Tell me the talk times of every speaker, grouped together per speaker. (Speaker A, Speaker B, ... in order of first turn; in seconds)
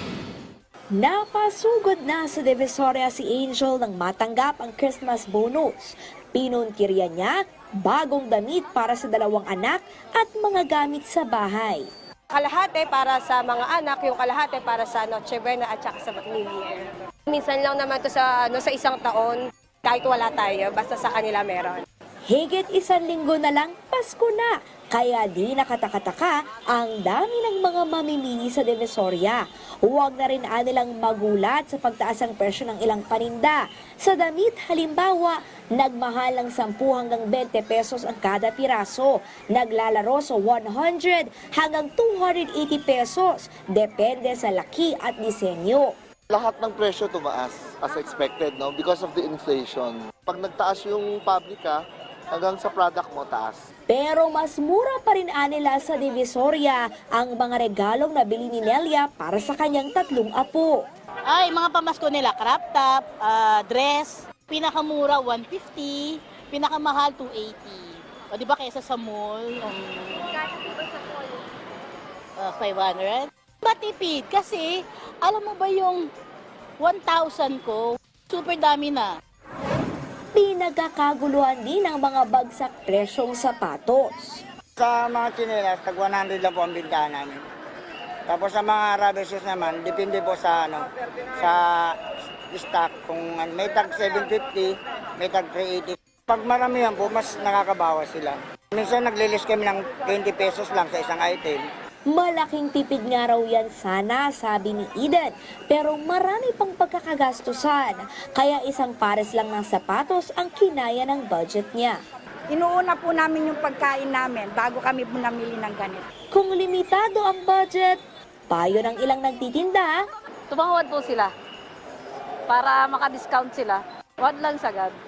Speaker A: 0.9-11.8, 22.3-45.9, 53.9-60.8, 80.3-84.4, 102.1-112.0, 116.3-118.0, 118.5-119.9
Speaker B: 12.3-21.8
Speaker C: 46.3-53.6
Speaker D: 61.3-70.4, 72.4-76.0, 76.8-79.1
Speaker E: 84.8-87.5, 88.3-92.0, 92.5-101.7
Speaker F: 112.5-116.0
Speaker G: 120.5-121.3, 122.5-125.0